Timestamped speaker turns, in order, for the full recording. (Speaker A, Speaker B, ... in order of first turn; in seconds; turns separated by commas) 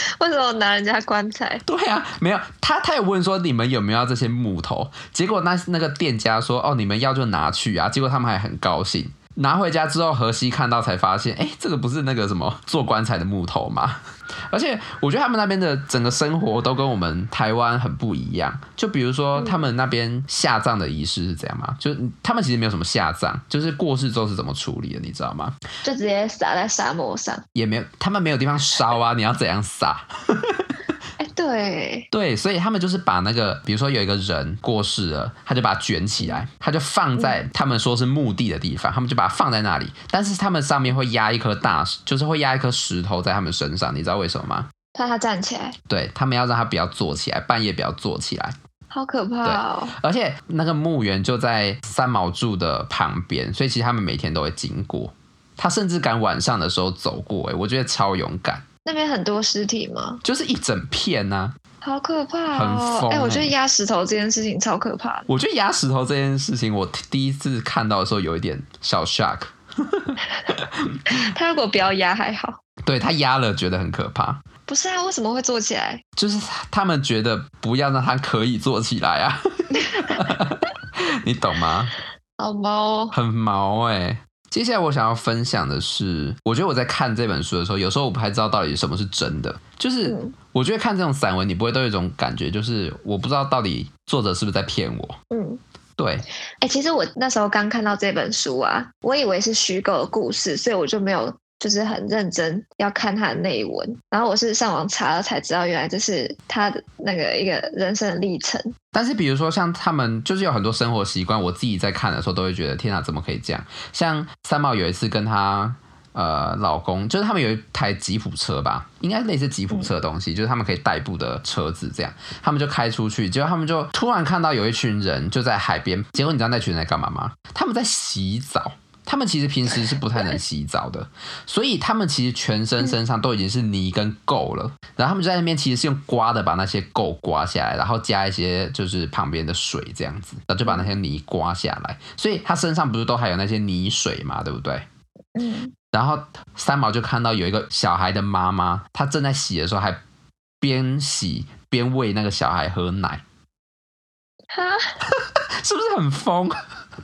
Speaker A: 0.2-1.6, Speaker B: 1.6-25.6, Speaker A: 19.3-19.6, Speaker A: 25.8-27.4, Speaker B: 27.5-30.8, Speaker A: 31.2-32.1, Speaker B: 32.1-44.7, Speaker A: 44.9-45.8, Speaker B: 45.9-48.5, Speaker A: 48.9-50.0, Speaker B: 49.4-58.6, Speaker A: 58.8-60.2, Speaker B: 60.2-61.6, Speaker A: 61.8-65.3, Speaker B: 62.5-63.5, Speaker B: 65.3-71.2, Speaker A: 71.1-72.6, Speaker B: 72.8-74.4, Speaker A: 74.7-76.0, Speaker B: 76.2-81.9, Speaker A: 79.8-80.2, Speaker A: 82.4-83.2, Speaker B: 83.1-95.2, Speaker A: 90.0-90.3, Speaker A: 95.3-95.6, Speaker B: 96.0-96.2, Speaker A: 96.6-108.7, Speaker B: 108.9-144.8, Speaker A: 140.7-140.9, Speaker A: 145.3-145.7, Speaker B: 145.9-150.0, Speaker B: 150.6-153.2, Speaker A: 154.5-154.9, Speaker B: 155.1-156.6